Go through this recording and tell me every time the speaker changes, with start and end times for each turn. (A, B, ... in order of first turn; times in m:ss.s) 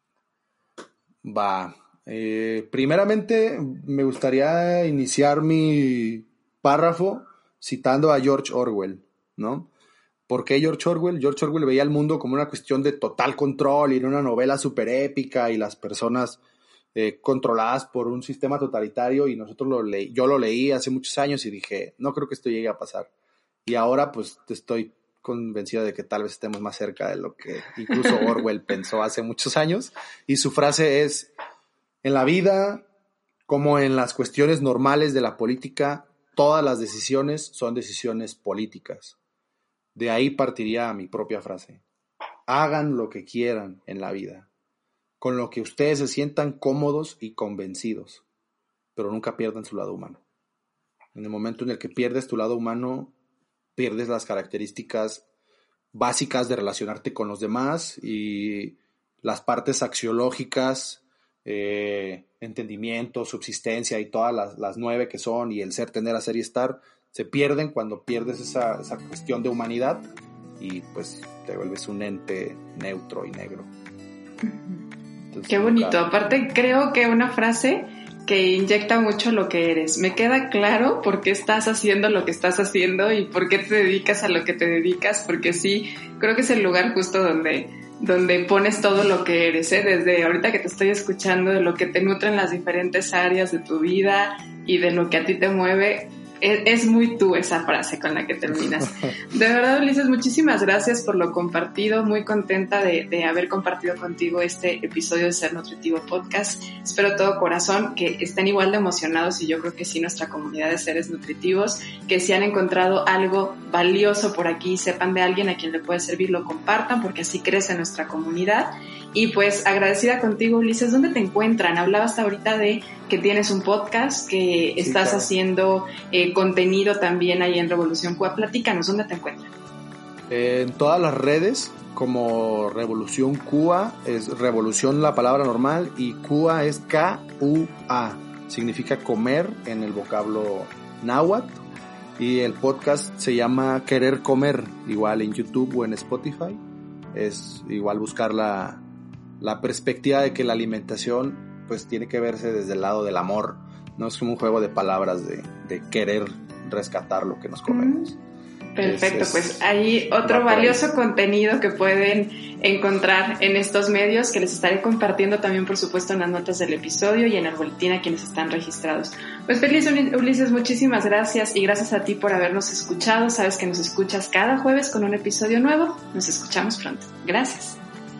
0:01.2-0:09.7 A
0:10.3-0:16.4 A
0:17.0-0:23.1 A
0:23.7-0:31.3 A
0:32.0-0:32.9 A
0:33.5-0:39.2 A
0:40.0-0:41.8 A
0:42.5-0:44.5 A
0:45.2-0:48.2 A
0:49.0-0:50.2 A
0:51.1-0:53.1 A
0:53.8-0:55.2 A
0:55.9-1:10.1 A
1:10.6-1:13.7 A
1:14.4-1:14.8 B
1:15.3-1:16.0 A
1:15.5-2:09.5 B
2:04.8-2:05.3 A
2:10.3-2:21.6 A
2:22.2-2:26.6 A
2:27.1-2:28.8 A
2:29.4-2:38.2 A
2:37.7-2:38.1 B
2:38.8-2:57.8 B
2:38.8-2:39.6 A
2:40.2-2:40.8 A